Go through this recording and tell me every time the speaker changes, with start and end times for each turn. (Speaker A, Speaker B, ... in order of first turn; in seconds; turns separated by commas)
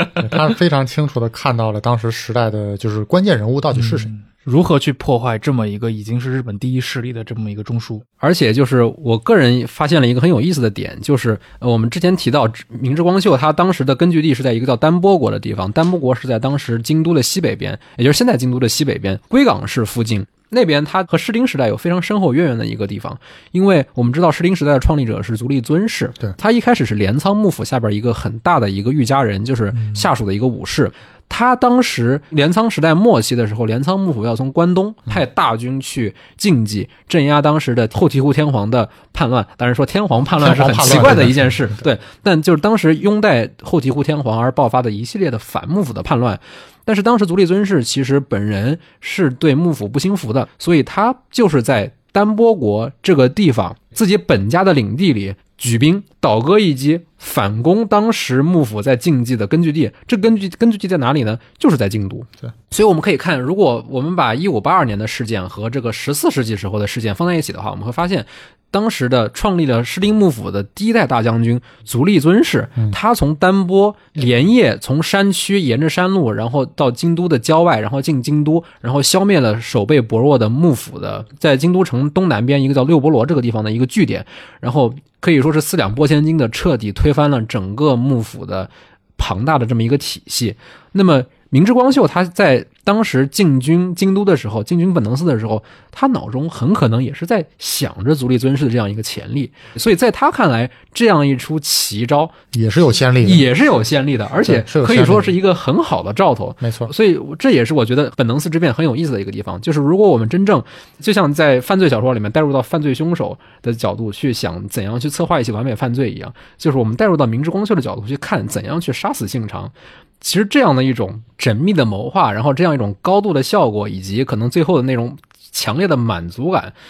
Speaker A: 0.2-4.1, Speaker B: 3.7-8.1, Speaker C: 8.2-102.3, Speaker B: 29.7-30.1, Speaker A: 40.4-41.5, Speaker A: 102.5-103.5, Speaker C: 103.2-126.8, Speaker A: 104.5-105.3, Speaker A: 106.6-106.9